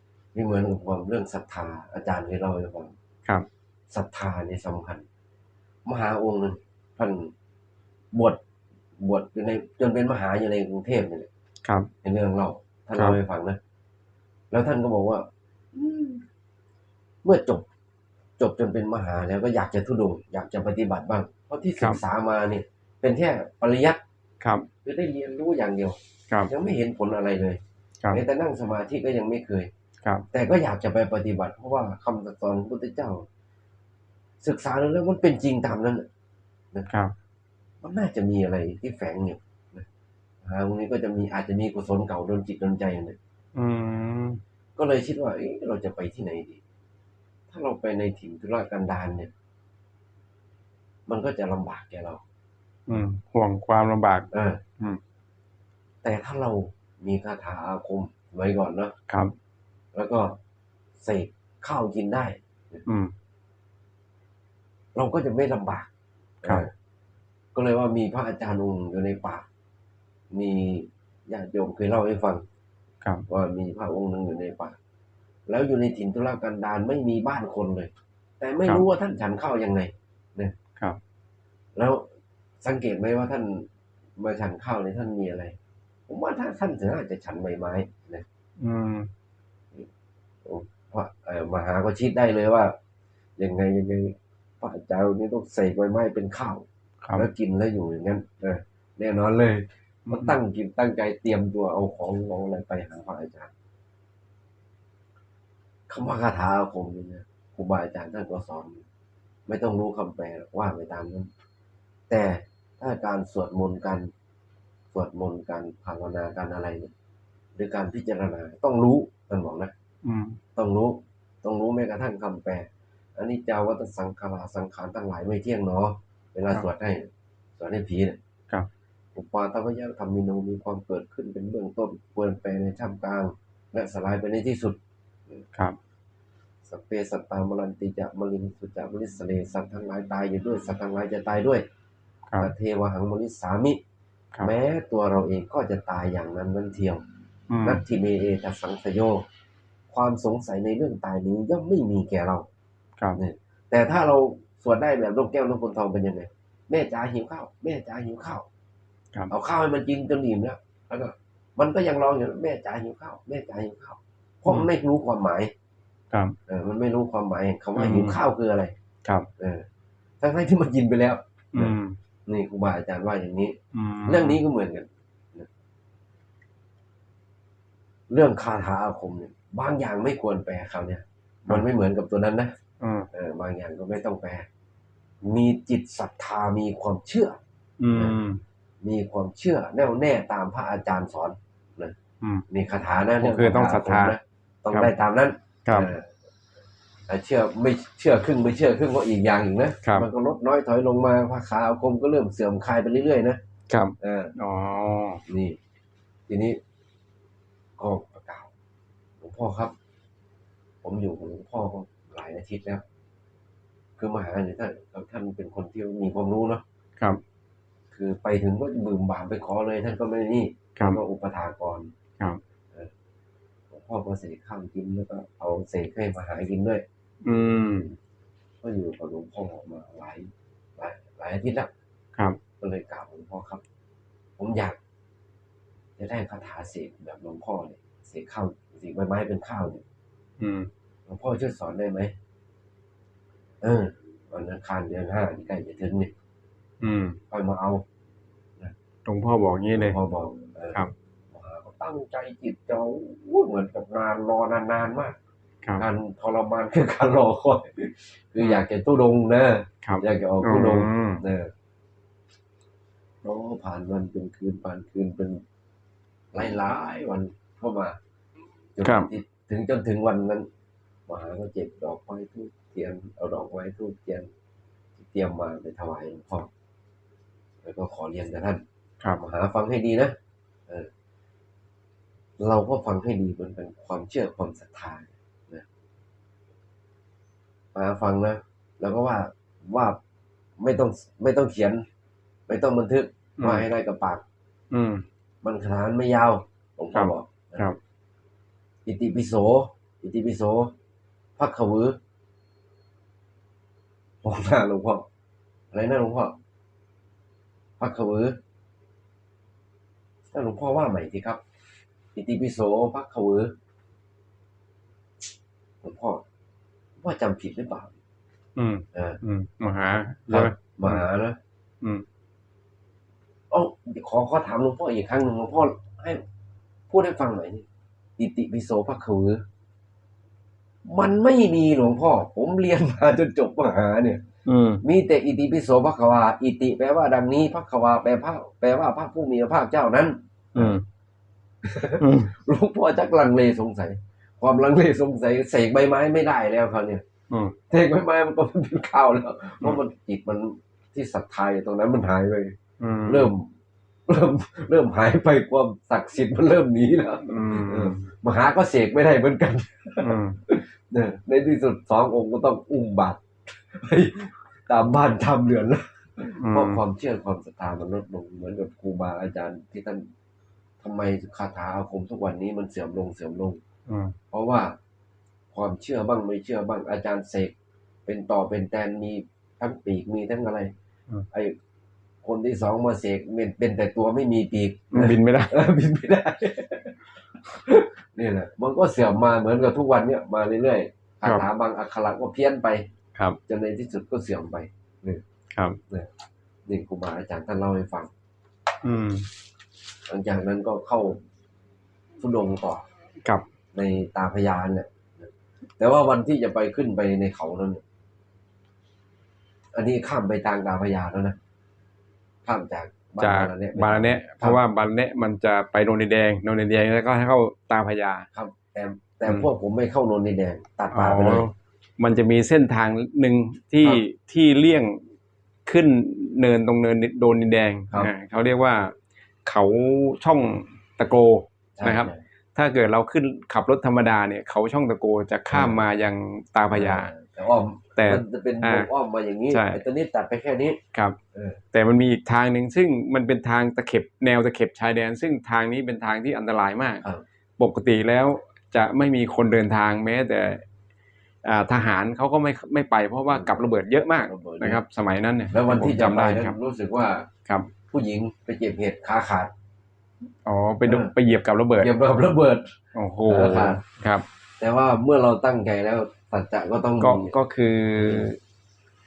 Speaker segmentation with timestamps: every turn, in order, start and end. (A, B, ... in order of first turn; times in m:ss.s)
0:00.3-0:02.9 A
0:03.9-0:05.0 A
0:05.8-0:07.3 A
0:08.1-0:08.4 A
0:09.0-0:11.3 A
0:11.6-0:11.9 B
0:12.0-0:13.6 A
0:14.5-0:16.2 A
0:17.2-0:17.6 A
0:18.4-0:24.0 A
0:24.4-0:24.7 B
0:24.8-0:27.6 A
0:28.1-0:29.7 A
0:30.3-0:33.3 A
0:34.4-0:36.1 A
0:36.9-0:37.1 B
0:37.8-0:39.8 A
0:40.4-0:43.2 A
0:43.5-0:44.4 B
0:44.8-0:46.6 A
0:47.5-0:49.3 A
0:51.1-0:52.2 A
0:52.9-0:54.3 B
0:54.3-0:54.6 A
0:56.0-0:58.9 A
0:59.9-1:00.4 A
1:01.0-1:02.8 A
1:02.8-1:03.1 B
1:04.9-1:05.9 A
1:06.4-1:06.7 A
1:07.5-1:09.4 A
1:10.3-1:12.4 A
1:13.3-1:14.8 A
1:15.5-1:20.5 A
1:21.7-1:22.1 A
1:22.6-1:25.6 A
1:26.1-1:28.2 A
1:28.6-1:29.1 B
1:30.4-1:32.7 A
1:33.4-1:43.5 A
1:37.0-1:37.3 B
1:40.1-1:40.4 B
1:45.9-1:48.8 A
1:49.5-1:51.3 A
1:52.1-1:54.1 A
1:54.9-1:56.9 A
1:57.6-1:59.7 A
2:00.0-2:00.4 B
2:00.6-2:08.2 A
2:09.1-2:14.8 A
2:16.7-2:21.6 A
2:22.4-2:23.8 A
2:24.4-2:27.0 A
2:27.5-2:27.8 B
2:27.6-2:29.2 A
2:29.9-2:32.5 A
2:33.2-2:38.5 A
2:39.3-2:45.5 A
2:46.1-2:46.4 B
2:46.5-2:48.7 A
2:47.8-2:48.2 B
2:49.4-2:49.7 A
2:50.2-2:51.8 A
2:51.5-2:52.0 B
2:52.3-2:55.5 A
2:53.7-2:54.4 B
2:58.1-3:02.5 A
3:02.8-3:03.1 B
3:03.1-3:04.5 A
3:05.2-3:07.4 A
3:07.8-3:08.4 B
3:08.8-3:11.9 A
3:12.5-3:16.1 A
3:13.2-3:14.2 B
3:15.6-3:15.9 B
3:17.1-3:23.4 A
3:23.7-3:25.2 B
3:24.0-3:24.3 A
3:25.3-3:25.6 A
3:26.3-3:26.6 A
3:27.8-3:28.5 A
3:29.2-3:29.7 A
3:30.8-3:32.8 A
3:34.0-3:36.6 A
3:37.9-3:41.9 A
3:40.8-3:41.0 B
3:43.7-3:46.8 A
3:47.2-3:47.9 B
3:48.6-3:51.7 A
3:52.6-3:53.6 A
3:54.4-3:54.8 A
3:56.0-3:59.8 A
4:00.4-4:00.7 B
4:01.1-4:02.1 A
4:03.6-4:06.1 A
4:06.8-4:07.2 B
4:07.3-4:07.8 A
4:09.0-4:10.0 B
4:09.7-4:10.8 A
4:11.3-4:15.2 A
4:15.8-4:21.5 A
4:19.8-4:21.2 B
4:23.2-4:25.4 A
4:26.3-4:28.0 A
4:28.8-4:30.5 A
4:28.8-4:29.1 B
4:31.1-4:34.3 A
4:35.0-4:36.5 A
4:37.6-4:38.6 A
4:39.2-4:40.2 A
4:42.4-4:45.6 A
4:47.7-4:50.0 A
4:50.6-4:51.8 A
4:52.5-4:54.2 A
4:53.4-4:53.7 B
4:54.7-4:55.0 B
4:55.4-4:57.7 A
4:56.9-4:57.8 B
4:58.8-5:00.7 A
5:01.4-5:02.0 A
5:04.2-5:05.0 A
5:05.7-5:06.3 A
5:07.8-5:08.4 A
5:10.3-5:11.4 A
5:12.1-5:13.5 A
5:15.8-5:16.2 A
5:17.0-5:17.9 A
5:18.6-5:21.0 B
5:18.9-5:19.2 A
5:20.3-5:21.4 A
5:23.5-5:26.2 A
5:26.9-5:27.6 A
5:28.2-5:29.4 A
5:30.8-5:34.2 A
5:34.4-5:34.8 B
5:34.8-5:40.8 A
5:40.6-5:40.8 B
5:41.6-5:47.0 A
5:42.0-5:42.3 B
5:47.3-5:47.5 B
5:47.7-5:53.5 A
5:52.8-5:53.3 B
5:54.1-6:10.1 A
5:57.3-5:58.0 B
6:00.0-6:00.4 B
6:06.4-6:06.8 B
6:10.8-6:13.6 A
6:13.9-6:14.2 B
6:14.3-6:14.8 A
6:15.5-6:17.5 A
6:18.0-6:20.7 A
6:21.3-6:21.6 A
6:22.2-6:32.8 A
6:24.9-6:25.5 B
6:33.5-6:35.2 A
6:35.5-6:35.8 B
6:36.7-6:38.1 A
6:38.8-6:39.3 B
6:40.1-6:41.2 A
6:42.2-6:42.8 A
6:43.7-6:47.8 A
6:49.7-6:51.4 A
6:52.4-6:54.6 A
6:53.2-6:58.3 B
6:58.3-7:01.4 A
7:00.9-7:05.0 B
7:05.6-7:17.1 B
7:11.8-7:12.2 A
7:15.5-7:15.8 A
7:16.7-7:20.8 A
7:18.0-7:18.9 B
7:19.5-7:19.8 B
7:21.3-7:21.6 A
7:21.7-7:27.0 B
7:27.6-7:30.6 B
7:31.4-7:36.6 B
7:33.3-7:34.8 A
7:35.5-7:37.3 A
7:37.9-7:39.5 A
7:40.4-7:41.9 B
7:40.9-7:41.1 A
7:41.8-7:43.8 A
7:42.9-7:44.2 B
7:44.6-7:47.3 A
7:47.0-7:48.4 B